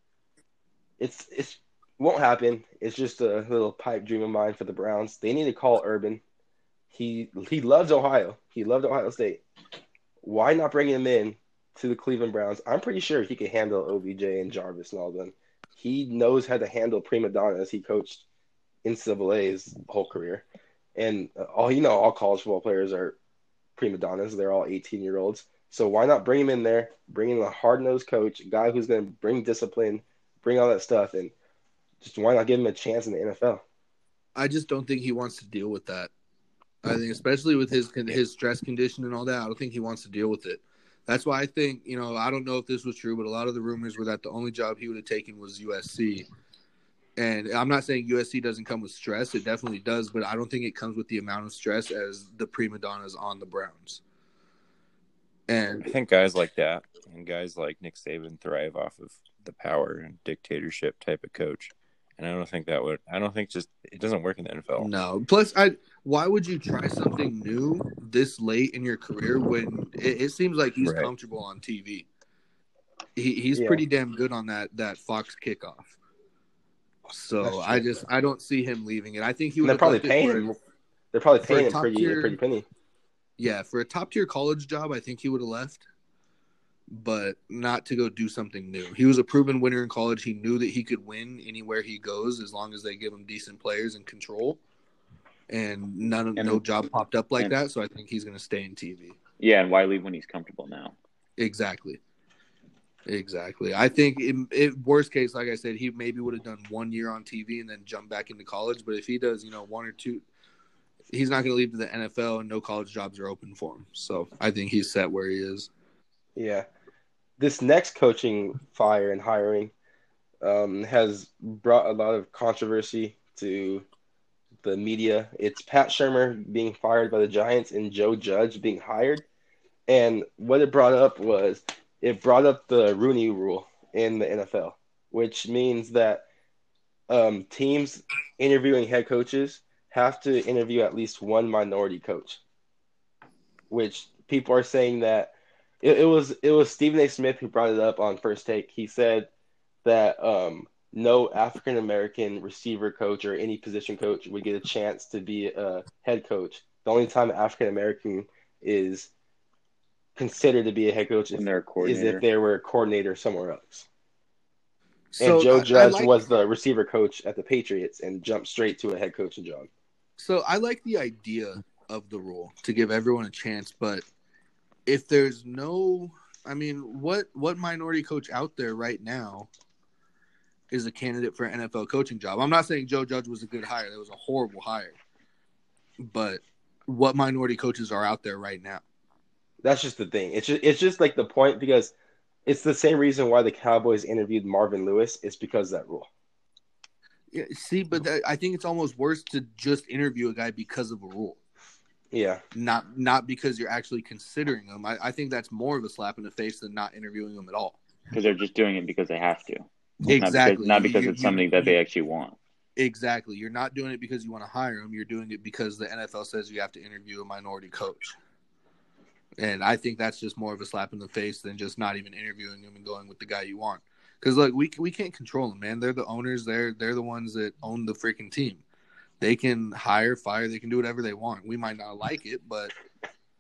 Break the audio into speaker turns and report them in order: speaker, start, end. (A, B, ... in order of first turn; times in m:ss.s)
0:01.0-0:06.2 A
0:06.9-0:09.4 A
0:10.2-0:18.2 A
0:18.8-0:20.4 A
0:21.0-0:23.2 A
0:23.8-0:31.3 A
0:32.0-0:33.6 A
0:34.4-0:36.1 B
0:36.8-0:46.3 B
0:47.2-0:54.0 B
0:55.5-0:55.9 B
0:55.8-1:04.9 C
1:04.8-1:12.1 B
1:10.8-1:11.1 C
1:13.2-1:15.9 B
1:13.6-1:13.8 A
1:17.1-1:20.5 B
1:17.4-1:17.9 A
1:19.6-1:20.6 A
1:21.1-1:22.6 A
1:21.5-1:22.4 B
1:23.4-1:25.8 B
1:26.9-1:34.6 B
1:35.5-1:39.2 B
1:36.4-1:36.6 D
1:39.4-1:41.0 D
1:41.4-1:42.0 B
1:43.1-1:50.2 B
1:51.1-1:55.7 B
1:56.4-1:56.7 A
1:57.4-1:59.7 A
2:00.4-2:03.8 A
2:04.6-2:09.2 A
2:09.9-2:16.2 A
2:17.1-2:22.4 A
2:23.7-2:29.3 A
2:29.8-2:39.1 A
2:40.2-2:43.9 A
2:41.4-2:42.2 D
2:45.1-2:46.1 B
2:45.2-2:49.7 A
2:50.2-2:54.0 B
2:54.9-2:59.5 B
3:00.7-3:05.0 B
3:06.0-3:08.8 B
3:09.6-3:11.9 A
3:12.5-3:16.1 A
3:17.3-3:21.4 B
3:22.1-3:22.4 A
3:22.5-3:27.8 B
3:28.1-3:32.4 D
3:30.1-3:31.8 B
3:32.8-3:38.2 B
3:39.4-3:48.6 B
3:49.2-3:52.7 B